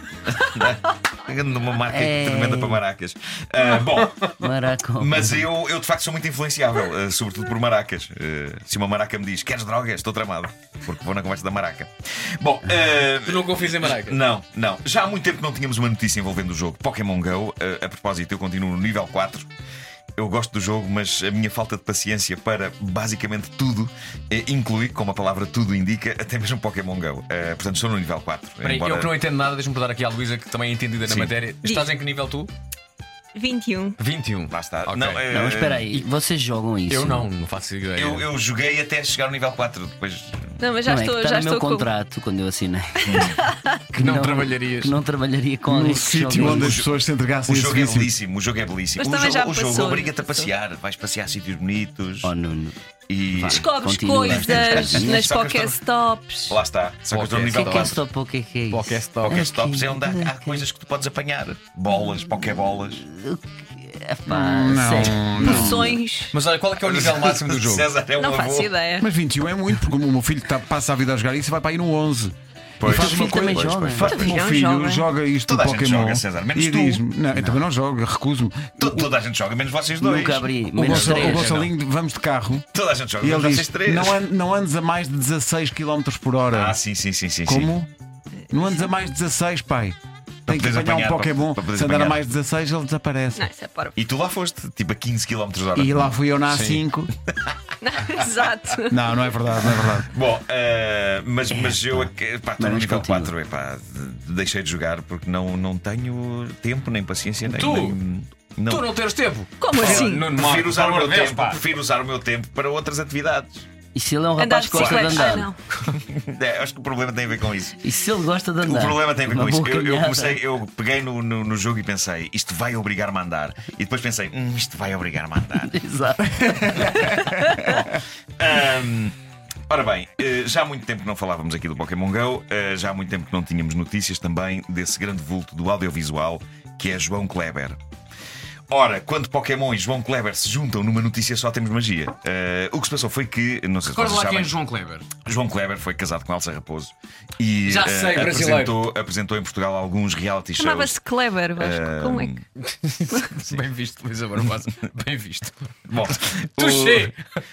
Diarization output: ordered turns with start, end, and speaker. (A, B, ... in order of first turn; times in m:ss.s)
0:00.2-0:04.3 A
0:01.9-0:02.8 B
0:04.4-0:05.5 B
0:05.0-0:19.5 A
0:13.2-0:14.2 C
0:20.2-0:29.2 A
0:28.6-0:32.5 C
0:31.0-0:31.9 A
0:33.3-0:34.0 D
0:34.0-0:35.2 C
0:34.5-0:36.0 A
0:35.3-0:37.3 B
0:36.9-0:38.2 C
0:37.9-0:40.6 A
0:40.6-0:41.9 D
0:40.8-0:43.2 B
0:43.0-0:43.4 A
0:43.1-0:43.7 D
0:43.9-0:46.8 B
0:44.0-0:44.9 C
0:45.7-0:48.1 E
0:46.4-0:52.3 A
0:49.0-0:50.5 D
0:52.2-0:52.7 B
0:53.1-0:53.7 A
0:53.3-0:55.2 B
0:53.5-0:56.6 D
0:54.3-0:55.8 A
0:56.5-0:58.0 A
0:57.1-0:57.9 C
0:57.5-1:00.6 B
0:58.7-0:59.3 C
0:59.2-1:03.0 A
1:02.4-1:06.0 B
1:04.3-1:06.0 E
1:05.4-1:06.4 D
1:06.3-1:07.8 C
1:06.8-1:08.8 A
1:08.2-1:09.0 D
1:09.0-1:19.1 E
1:12.8-1:14.4 A
1:12.8-1:14.1 B
1:14.0-1:15.1 D
1:15.4-1:17.0 A
1:17.3-1:17.6 B
1:18.8-1:21.5 A
1:20.0-1:21.6 B
1:20.7-1:22.6 E
1:22.7-1:24.2 A
1:23.2-1:26.7 E
1:26.5-1:27.7 A
1:27.5-1:27.9 E
1:28.5-1:33.4 E
1:30.5-1:32.2 A
1:33.4-1:34.0 D
1:34.0-1:36.1 A
1:35.8-1:37.1 E
1:37.2-1:37.7 A
1:37.8-1:38.9 D
1:38.9-1:40.1 E
1:40.1-1:48.9 A
1:42.6-1:43.3 B
1:47.5-1:48.0 C
1:48.7-1:51.6 C
1:49.6-1:50.3 D
1:49.8-1:53.7 A
1:53.9-1:55.5 B
1:54.4-1:55.6 D
1:54.7-1:57.8 A
1:57.8-2:00.4 B
1:58.6-2:05.7 A
2:05.6-2:06.6 B
2:06.6-2:07.9 E
2:08.4-2:09.1 A
2:09.7-2:17.8 A
2:18.7-2:31.0 A
2:23.9-2:25.1 C
2:27.7-2:28.8 C
2:30.6-2:32.4 D
2:31.6-2:32.4 A
2:32.7-2:35.5 C
2:35.9-2:37.1 A
2:36.6-2:37.1 C